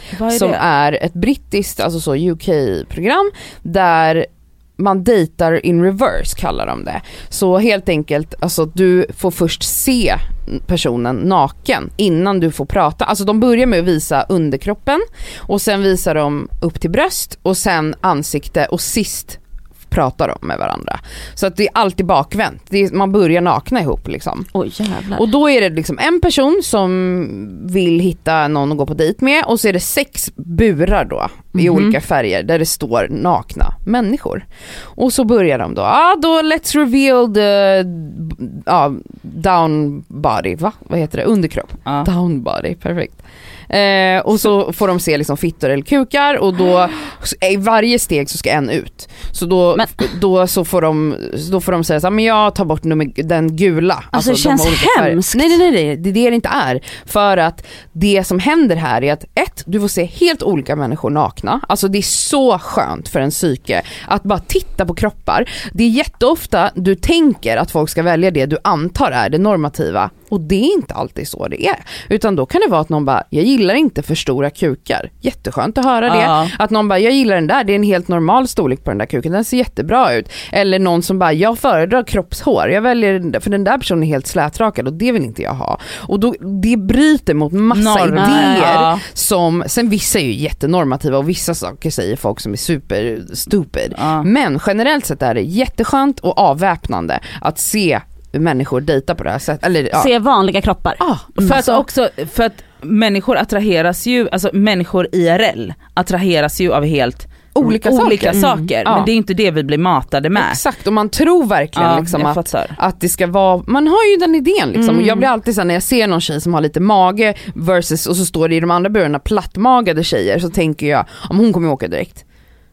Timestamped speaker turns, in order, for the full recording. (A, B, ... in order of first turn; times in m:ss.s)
0:00.1-0:00.6 A
0:00.3-0:24.5 B
0:24.5-0:25.2 C
0:25.1-1:40.1 B
0:31.5-0:31.9 C
0:54.1-0:55.6 C
1:16.1-1:16.5 A
1:27.7-1:29.0 A
1:28.2-1:28.7 C
1:34.0-1:34.3 A
1:39.9-1:41.8 C
1:41.0-1:41.7 B
1:41.4-1:50.6 A
1:47.5-1:49.1 B
1:48.3-1:48.7 C
1:50.3-2:02.2 B
1:51.8-1:52.8 A
1:54.8-1:55.3 C